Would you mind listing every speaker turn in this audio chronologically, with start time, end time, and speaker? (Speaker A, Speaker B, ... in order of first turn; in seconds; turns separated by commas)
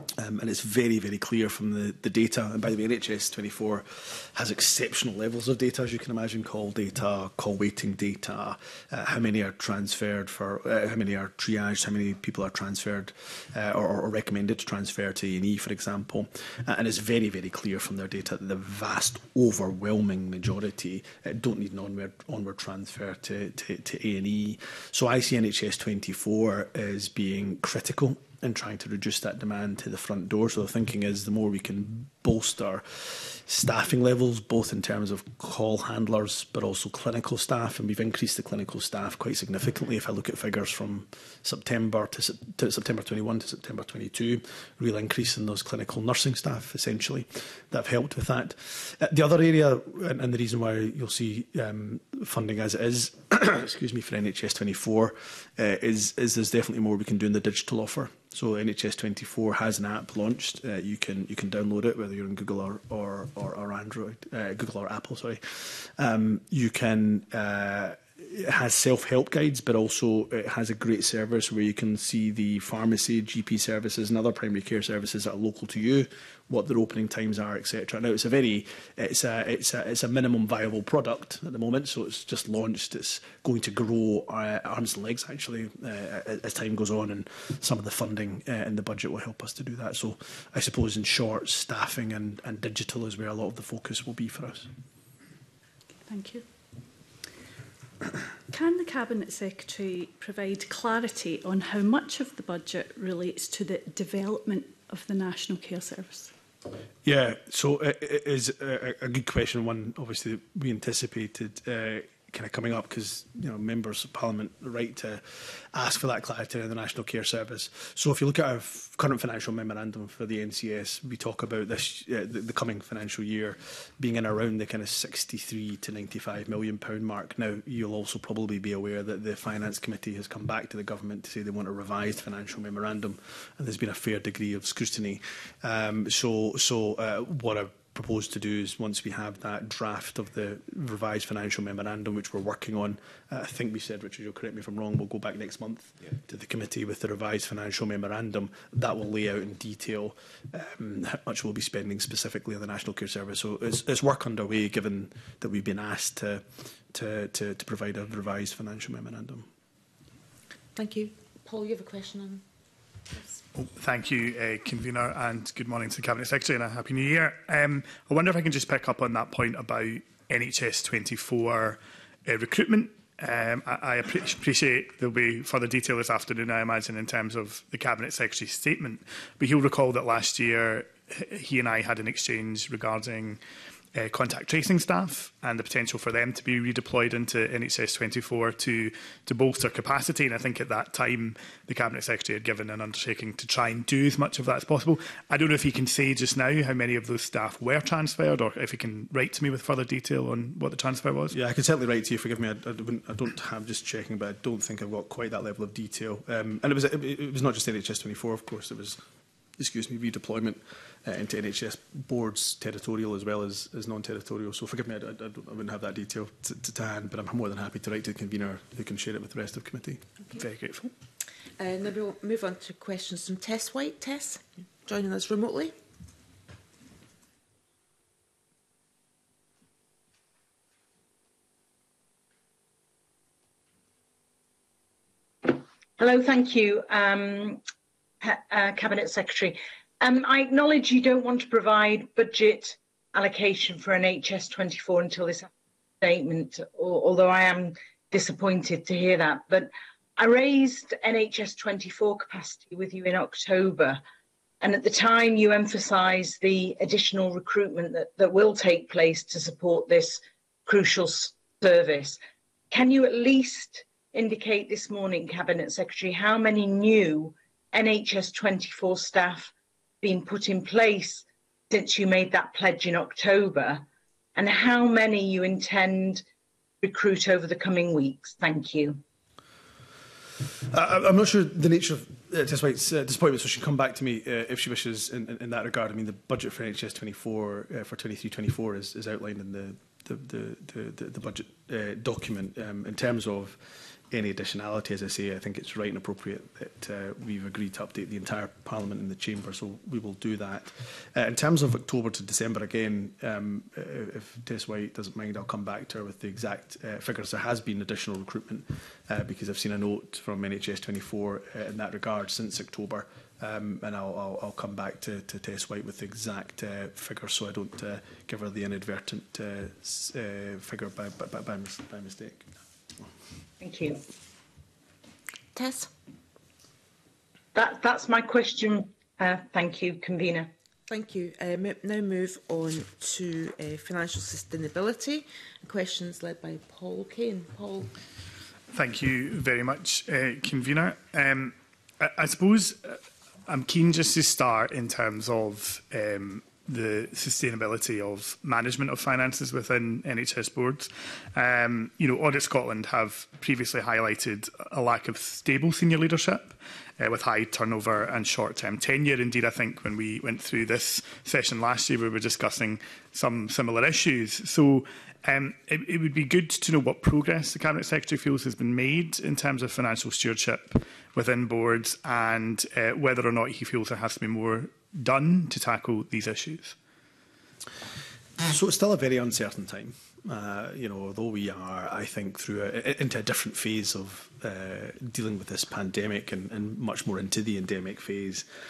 Speaker A: 0.2-94.7, Speaker B: 96.0-96.4, Speaker B: 98.5-106.3, Speaker A: 107.0-159.5, Speaker C: 160.8-162.4, Speaker D: 163.5-183.4, Speaker D: 183.9-201.3, Speaker A: 201.3-209.0, Speaker A: 209.6-220.9, Speaker C: 221.6-225.7, Speaker E: 235.4-237.6, Speaker E: 238.2-245.5, Speaker E: 246.0-254.0, Speaker E: 254.6-262.2, Speaker E: 262.7-276.2, Speaker E: 276.8-279.0, Speaker A: 280.6-322.5, Speaker E: 323.6-324.0, Speaker C: 325.5-325.9, Speaker E: 327.5-330.5, Speaker C: 330.9-337.9, Speaker D: 338.7-376.8, Speaker A: 378.4-388.5